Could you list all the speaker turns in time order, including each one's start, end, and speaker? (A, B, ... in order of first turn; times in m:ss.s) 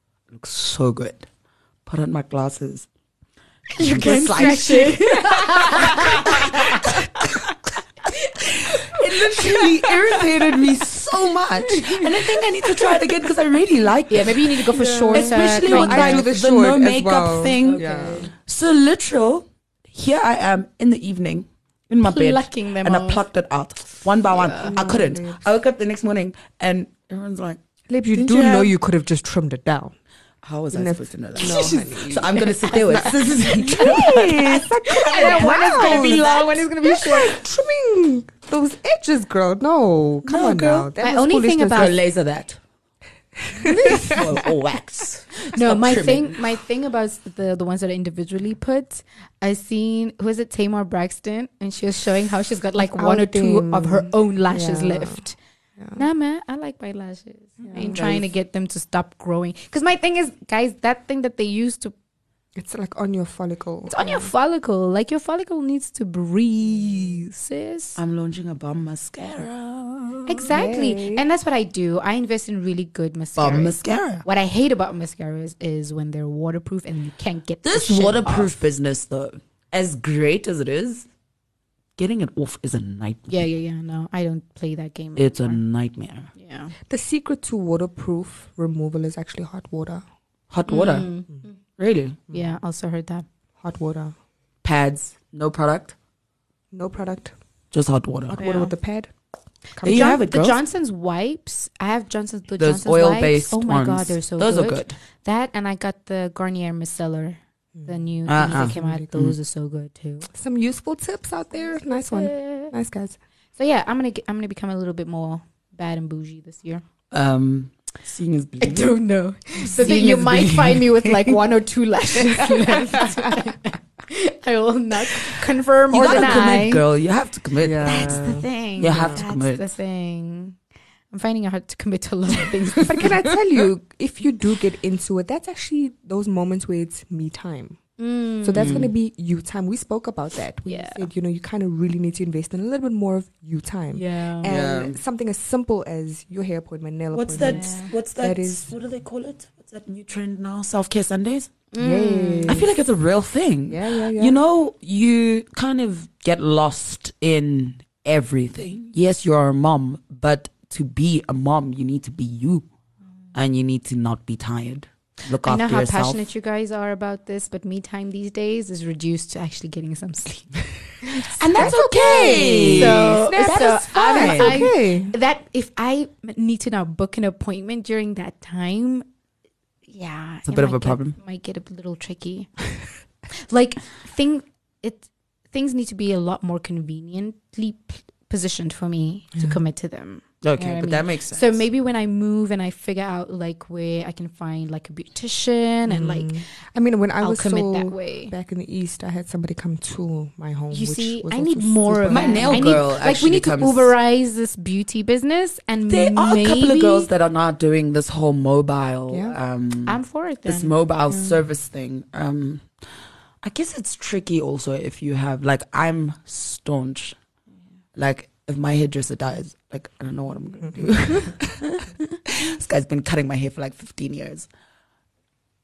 0:00.3-0:01.3 A
0:01.9-0:02.9 A
0:03.7-0:07.1 B
0:03.8-0:07.5 A
0:05.8-0:06.0 C
0:08.1-0:27.6 A
0:08.7-0:09.6 B
0:11.7-0:12.8 B
0:14.1-0:16.3 B
0:14.7-0:18.3 C
0:17.6-0:18.3 B
0:22.0-0:23.2 B
0:24.3-0:24.8 B
0:24.6-0:25.4 C
0:27.9-0:29.9 C
0:28.1-0:28.7 A
0:30.4-0:37.4 A
0:30.7-0:36.3 C
0:31.4-0:37.3 B
0:36.8-0:41.9 C
0:40.3-0:40.9 A
0:41.0-0:42.0 B
0:41.7-0:42.6 A
0:43.5-0:44.5 C
0:43.6-0:46.4 A
0:43.7-0:44.2 B
0:45.4-0:55.4 B
0:52.8-0:55.2 C
0:56.0-1:01.9 B
0:57.6-0:58.1 C
0:57.8-0:58.3 A
1:02.6-1:04.3 C
1:03.9-1:08.0 B
1:08.0-1:10.5 A
1:10.3-1:18.5 B
1:10.5-1:11.2 C
1:13.4-1:14.2 A
1:17.6-1:21.1 A
1:22.0-1:23.4 A
1:23.3-1:25.6 B
1:25.2-1:26.3 A
1:26.4-1:26.7 B
1:26.9-1:30.0 C
1:30.5-1:31.1 A
1:30.7-1:31.6 B
1:31.8-1:32.2 A
1:32.3-1:33.3 B
1:33.6-1:34.2 C
1:34.6-1:36.0 A
1:36.7-1:37.3 C
1:37.7-1:38.5 A
1:38.3-1:39.1 C
1:38.4-1:38.7 B
1:39.8-1:40.2 C
1:39.8-1:40.6 A
1:39.8-1:50.3 B
1:42.6-1:45.0 A
1:48.3-1:49.4 A
1:48.5-1:49.2 C
1:50.3-1:53.2 C
1:51.6-1:52.7 B
1:53.6-1:56.8 B
1:57.1-1:59.0 A
1:58.6-2:06.8 B
1:59.6-2:01.4 A
2:02.5-2:03.3 C
2:05.9-2:08.2 A
2:07.6-2:09.2 C
2:07.8-2:10.6 B
2:08.8-2:09.6 A
2:11.1-2:13.3 B
2:12.8-2:17.8 C
2:18.0-2:18.9 B
2:18.4-2:28.7 C
2:18.6-2:18.9 A
2:20.7-2:21.1 B
2:23.9-2:24.5 B
2:24.4-2:25.0 A
2:27.1-2:31.5 A
2:27.4-2:27.9 B
2:31.7-2:32.6 B
2:31.8-2:32.7 C
2:32.5-2:42.6 A
2:33.7-2:34.4 C
2:43.3-2:46.3 A
2:45.4-2:59.1 B
2:51.4-2:54.6 A
2:51.6-2:55.2 C
2:59.9-3:02.5 B
3:00.5-3:01.2 A
3:03.4-3:16.4 B
3:10.4-3:11.6 A
3:15.9-3:22.8 C
3:17.2-3:18.3 B
3:20.7-3:27.1 B
3:22.1-3:23.9 A
3:25.9-3:32.7 A
3:29.1-3:29.4 C
3:29.9-3:30.7 B
3:31.1-3:31.4 C
3:33.4-3:37.2 A
3:38.0-3:44.5 A